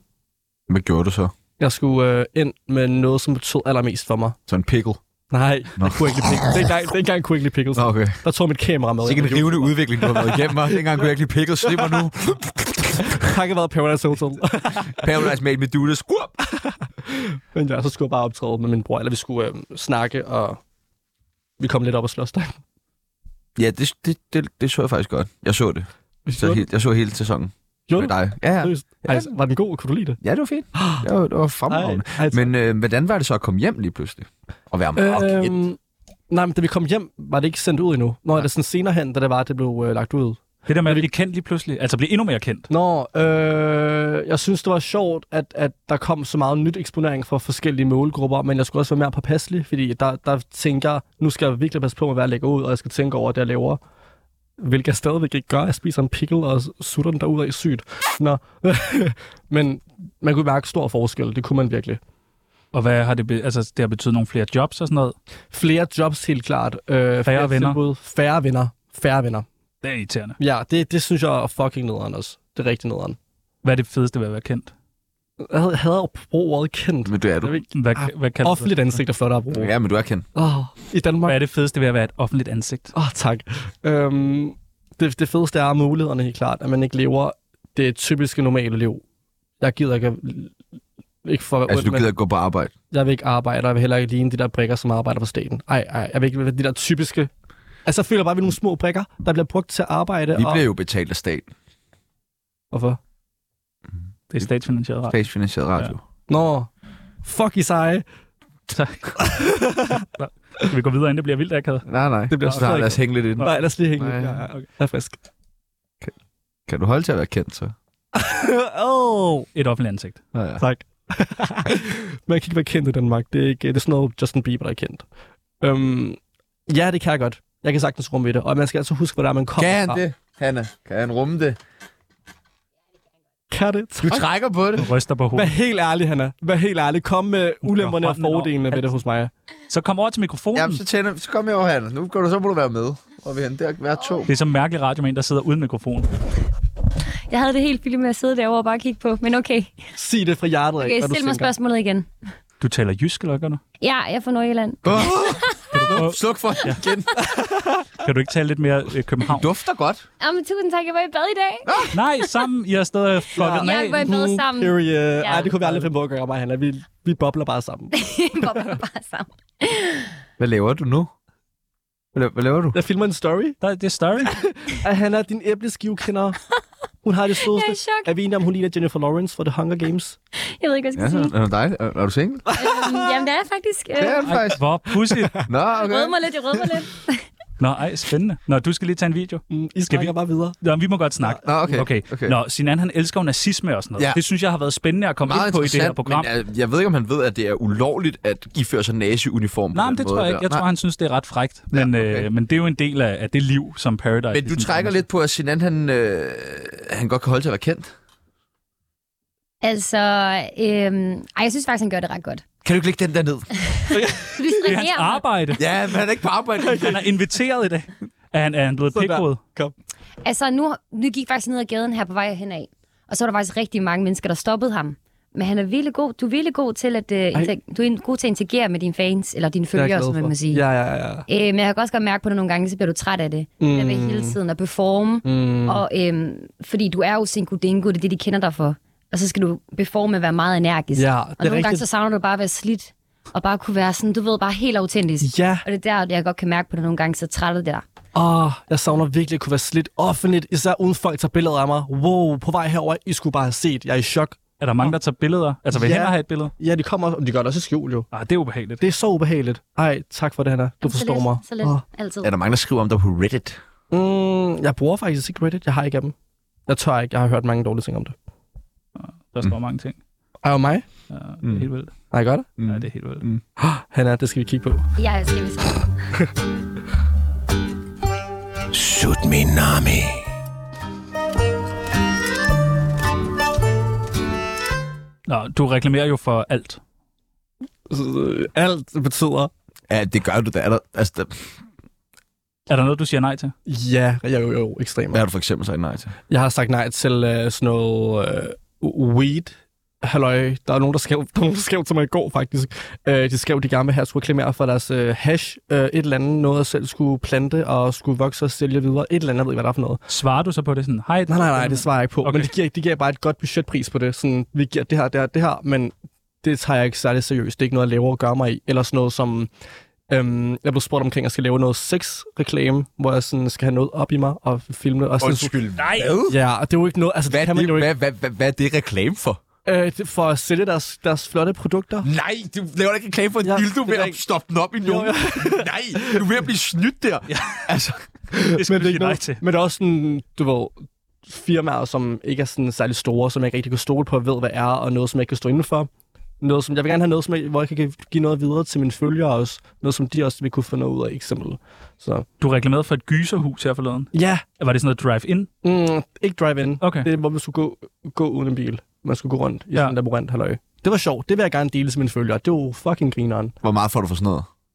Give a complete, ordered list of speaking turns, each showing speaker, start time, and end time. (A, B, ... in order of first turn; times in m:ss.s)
0:00.7-0:01.3 A
0:01.6-0:04.4 B
0:04.5-0:05.0 A
0:05.3-0:10.8 B
0:05.8-0:06.6 A
0:07.7-0:08.2 A
0:09.0-0:13.2 A
0:11.6-0:12.0 B
0:13.0-0:15.3 B
0:14.8-0:16.4 A
0:16.5-0:20.6 B
0:21.6-0:22.6 B
0:23.6-0:29.3 A
0:26.2-0:26.6 B
0:27.9-0:30.2 B
0:30.2-0:35.6 A
0:30.7-0:31.0 B
0:31.7-0:32.5 B
0:35.0-0:35.8 B
0:36.3-0:41.1 B
0:40.7-0:42.7 C
0:42.7-0:53.8 B
0:54.6-1:02.0 B
1:02.7-1:05.2 C
1:05.5-1:09.4 B
1:07.3-1:07.8 C
1:09.8-1:10.4 C
1:10.4-1:13.2 B
1:13.6-1:14.7 C
1:15.4-1:19.7 B
1:17.0-1:17.6 A
1:17.7-1:18.9 C
1:19.5-1:20.2 A
1:20.3-1:21.4 B
1:21.2-1:22.9 C
1:22.9-1:29.0 B
1:29.6-1:30.5 B
1:31.2-1:32.1 B
1:31.7-1:32.7 A
1:32.9-1:37.3 B
1:37.8-1:40.6 B
1:40.3-1:41.5 A
1:42.7-1:43.0 B
1:44.3-1:45.2 C
1:45.1-1:46.0 A
1:46.3-1:46.7 B
1:47.2-1:48.0 B
1:48.7-1:49.4 C
1:49.2-1:50.0 B
1:50.1-1:51.8 C
1:51.8-1:54.4 A
1:52.3-1:55.2 B
1:56.7-1:57.7 A
1:58.1-1:59.5 B
1:59.5-2:00.2 C
2:00.3-2:00.6 A
2:00.6-2:05.0 B
2:05.6-2:10.0 B
2:09.6-2:11.6 A
2:13.5-2:14.3 B
2:14.0-2:14.9 A
2:14.8-2:15.5 C
2:15.3-2:19.3 B
2:17.6-2:19.0 C
2:19.7-2:20.8 C
2:20.5-2:24.3 A
2:24.3-2:26.1 C
2:27.3-2:29.8 D
2:30.0-2:31.5 B
2:30.8-2:32.1 D
2:32.6-2:33.6 C
2:33.8-2:35.6 D
2:34.8-2:37.1 A
2:35.7-2:36.8 C
2:37.2-2:37.9 B
2:38.0-2:39.5 C
2:39.3-2:40.0 A
2:40.2-2:42.3 D
2:41.6-2:42.0 A
2:41.9-2:44.1 C
2:43.3-2:47.9 B
2:43.4-2:45.5 D
2:45.3-2:45.9 C
2:47.9-2:50.1 D
2:50.4-2:51.1 A
2:52.1-2:52.8 A
2:52.7-2:53.6 B
2:53.6-2:54.4 C
2:54.2-2:56.4 B
2:57.0-3:00.2 B
2:57.4-2:58.1 D
3:00.4-3:01.3 D
3:00.9-3:02.5 A
3:02.5-3:04.3 D
3:04.0-3:04.6 A
3:04.2-3:05.4 C
3:05.3-3:06.2 A
3:05.6-3:07.2 D
3:07.6-3:16.3 C
3:09.5-3:10.6 B
3:11.4-3:12.4 A
3:15.2-3:20.6 A
3:19.7-3:25.0 C
3:21.7-3:22.3 A
3:24.3-3:27.9 A
3:29.6-3:32.4 D
3:32.6-3:33.5 A
3:33.7-3:35.2 D
3:33.9-3:34.3 B
3:34.6-3:35.6 C
3:35.6-3:37.0 A
3:36.6-3:36.9 B
3:36.7-3:39.4 C
3:38.9-3:39.7 B
3:40.2-3:50.6 D
3:49.7-3:51.2 B
3:51.3-4:07.8 D
3:53.6-3:54.4 B
3:55.2-3:55.8 B
4:00.9-4:01.8 B
4:05.2-4:05.6 B
4:08.1-4:14.9 B
4:14.6-4:16.5 C
4:15.7-4:18.1 B
4:18.1-4:18.8 C
4:18.8-4:21.8 B
4:20.8-4:22.3 D
4:22.2-4:23.6 A
4:23.9-4:26.1 B
4:26.7-4:28.1 B
4:29.0-4:30.0 C
4:30.4-4:30.8 B
4:31.1-4:31.9 C
4:32.1-4:32.5 B
4:32.6-4:33.4 A
4:32.6-4:33.2 C
4:33.6-4:34.8 B
4:35.0-4:35.8 D
4:38.7-4:40.0 A
4:45.3-4:46.8 C
4:47.9-4:49.5 B
4:49.9-4:51.5 A
4:52.7-4:53.5 C
4:53.7-4:55.2 B
4:55.1-4:56.1 A
4:56.3-5:10.0 B
5:10.1-5:12.5 C
5:11.3-5:19.5 B
5:20.1-5:25.6 B
5:25.2-5:26.4 A
5:25.8-5:26.2 C
5:26.3-5:27.9 B
5:27.3-5:29.4 A
5:29.6-5:32.1 B
5:32.0-5:38.0 A
5:33.4-5:34.2 B
5:34.8-5:36.2 B
5:37.3-5:37.7 C
5:38.3-5:40.7 B
5:38.4-5:39.4 C
5:41.2-5:45.9 B
5:46.4-5:52.3 B
5:52.4-5:55.5 C
5:54.1-5:54.4 B
5:55.6-6:03.5 B
5:56.8-5:57.1 C
6:03.6-6:04.5 A